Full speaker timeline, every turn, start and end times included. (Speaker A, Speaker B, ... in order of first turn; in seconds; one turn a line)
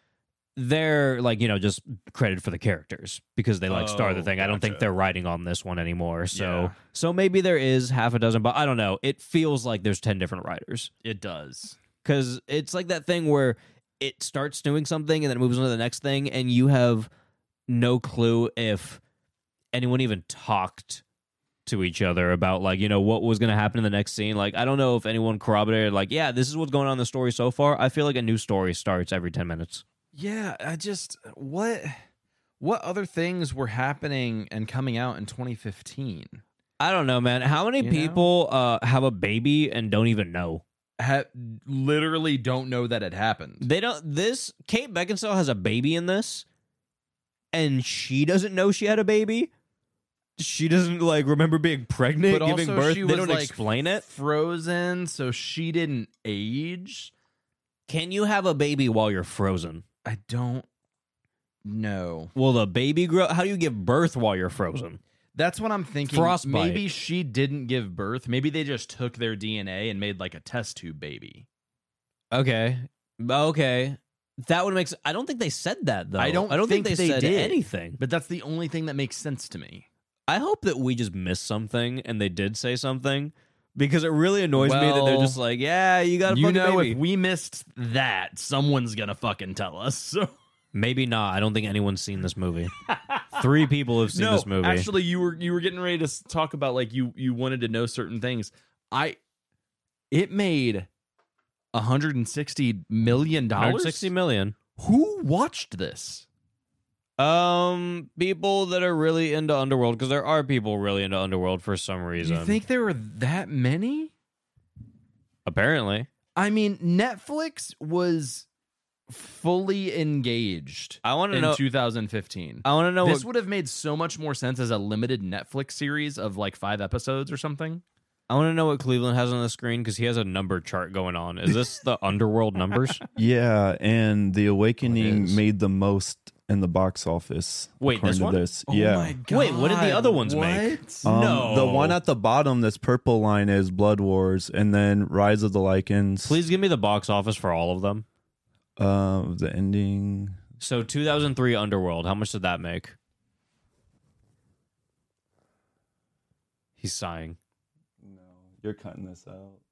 Speaker A: 0.6-10.9
Speaker B: 3.7-4.9
Speaker B: 6.3-6.8
Speaker B: 11.0-11.8
Speaker A: 12.0-17.1
Speaker A: 17.7-19.0
Speaker A: 19.7-21.0
Speaker A: 21.7-29.8
Speaker B: 30.1-32.0
Speaker B: 32.6-36.4
Speaker A: 36.8-40.6
Speaker B: 37.8-38.3
Speaker B: 41.0-43.7
Speaker A: 43.6-46.5
Speaker A: 47.5-49.5
Speaker A: 50.4-54.0
Speaker B: 52.3-57.1
Speaker A: 57.9-59.8
Speaker B: 60.0-60.7
Speaker B: 61.6-62.3
Speaker A: 62.4-65.0
Speaker B: 65.3-71.5
Speaker A: 66.1-66.8
Speaker A: 72.3-78.0
Speaker B: 76.2-79.9
Speaker A: 80.3-87.0
Speaker B: 84.6-85.4
Speaker B: 86.3-90.3
Speaker A: 90.7-92.7
Speaker B: 92.9-93.5
Speaker A: 93.3-94.9
Speaker B: 94.1-99.2
Speaker B: 100.1-100.9
Speaker B: 101.7-104.1
Speaker A: 103.6-104.5
Speaker B: 104.8-106.3
Speaker A: 107.2-112.6
Speaker B: 112.2-114.1
Speaker A: 115.5-116.1
Speaker B: 116.4-118.5
Speaker B: 119.1-127.8
Speaker A: 121.0-121.6
Speaker A: 122.7-123.3
Speaker A: 128.3-133.0
Speaker C: 133.2-139.2
Speaker A: 134.8-135.4
Speaker A: 137.8-138.4
Speaker B: 138.7-141.1
Speaker A: 139.3-142.0
Speaker C: 141.0-146.4
Speaker A: 146.2-148.1
Speaker C: 148.8-150.4
Speaker A: 150.6-152.9
Speaker A: 156.8-157.4
Speaker C: 158.0-159.6